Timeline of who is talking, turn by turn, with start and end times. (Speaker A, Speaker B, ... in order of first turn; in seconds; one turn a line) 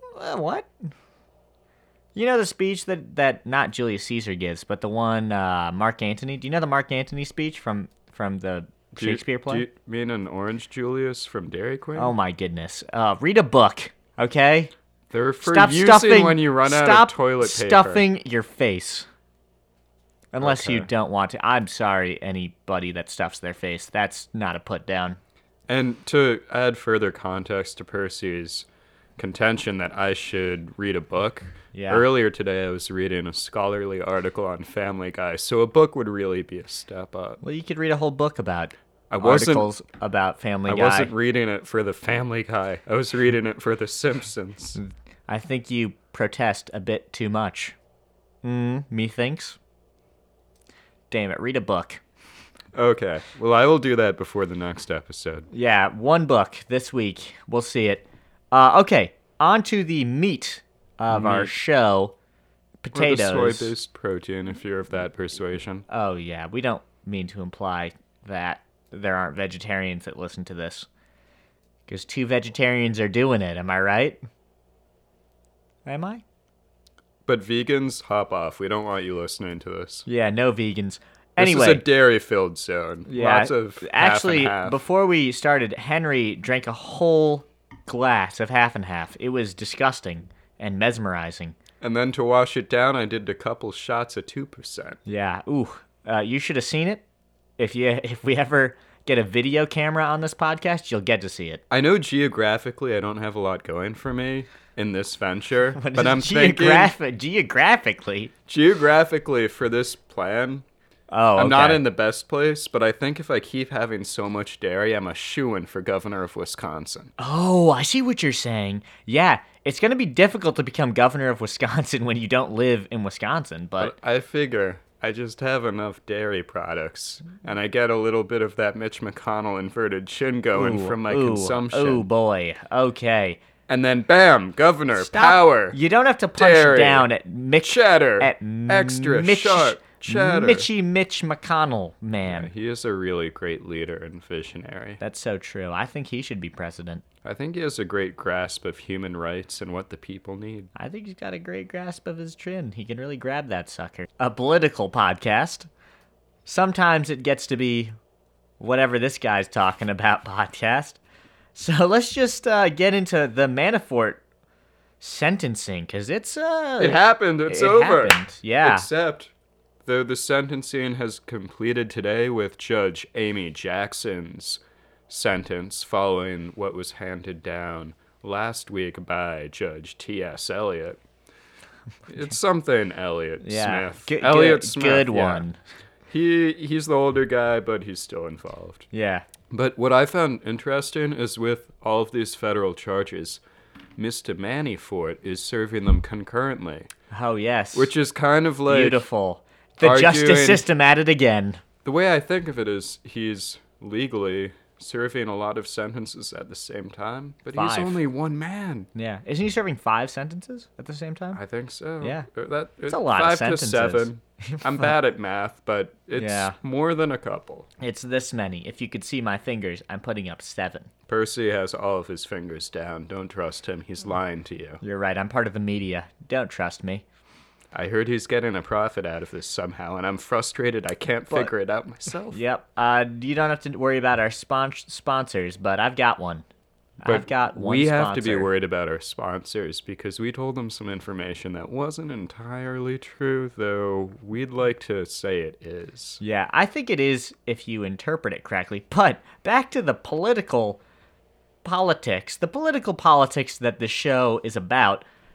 Speaker A: 0.1-0.7
Speaker A: 2.1-9.7
Speaker B: 9.0-12.1
Speaker A: 11.9-14.7
Speaker B: 15.1-18.0
Speaker A: 15.4-19.1
Speaker A: 20.3-25.2
Speaker B: 20.4-20.9
Speaker B: 25.7-28.7
Speaker B: 29.2-37.4
Speaker A: 31.7-32.0
Speaker A: 37.4-41.1
Speaker B: 39.1-39.7
Speaker B: 40.7-44.8
Speaker A: 44.8-47.8
Speaker A: 48.4-49.6
Speaker A: 51.1-52.0
Speaker B: 52.7-55.5
Speaker A: 55.5-62.1
Speaker B: 61.1-61.5
Speaker A: 62.8-63.7
Speaker B: 62.9-65.8
Speaker A: 65.9-70.9
Speaker A: 71.9-74.2
Speaker A: 75.8-76.2
Speaker B: 77.2-80.0
Speaker A: 80.1-81.8
Speaker B: 81.4-84.8
Speaker A: 83.1-91.5
Speaker B: 91.8-95.0
Speaker A: 95.0-97.0
Speaker A: 97.6-101.6
Speaker B: 101.7-106.9
Speaker A: 105.8-108.3
Speaker B: 108.5-110.6
Speaker A: 111.1-111.8
Speaker B: 111.3-117.1
Speaker A: 117.2-123.9
Speaker B: 123.8-132.1
Speaker A: 130.5-133.4
Speaker B: 133.7-135.8
Speaker A: 134.9-142.5
Speaker B: 136.4-137.1
Speaker B: 137.6-140.7
Speaker B: 142.2-145.0
Speaker A: 145.0-147.0
Speaker B: 147.2-150.7
Speaker A: 150.7-155.7
Speaker A: 156.4-157.9
Speaker A: 158.6-161.0
Speaker A: 161.5-164.2
Speaker A: 165.0-168.9
Speaker B: 166.8-169.3
Speaker B: 169.8-181.0
Speaker B: 182.1-185.4
Speaker A: 183.4-185.6
Speaker B: 186.1-188.9
Speaker A: 188.9-189.2
Speaker B: 189.5-193.4
Speaker B: 194.0-196.9
Speaker A: 197.1-197.9
Speaker B: 197.7-199.1
Speaker A: 198.7-201.6
Speaker B: 199.8-200.6
Speaker B: 201.8-208.9
Speaker A: 207.5-208.0
Speaker A: 208.9-211.4
Speaker B: 211.3-217.7
Speaker A: 212.0-212.2
Speaker A: 212.9-214.9
Speaker A: 216.2-216.6
Speaker A: 217.8-220.9
Speaker B: 221.1-224.8
Speaker A: 224.8-227.0
Speaker B: 227.7-232.4
Speaker A: 232.3-236.4
Speaker A: 237.0-238.5
Speaker B: 237.0-246.2
Speaker A: 246.2-250.8
Speaker A: 251.6-255.1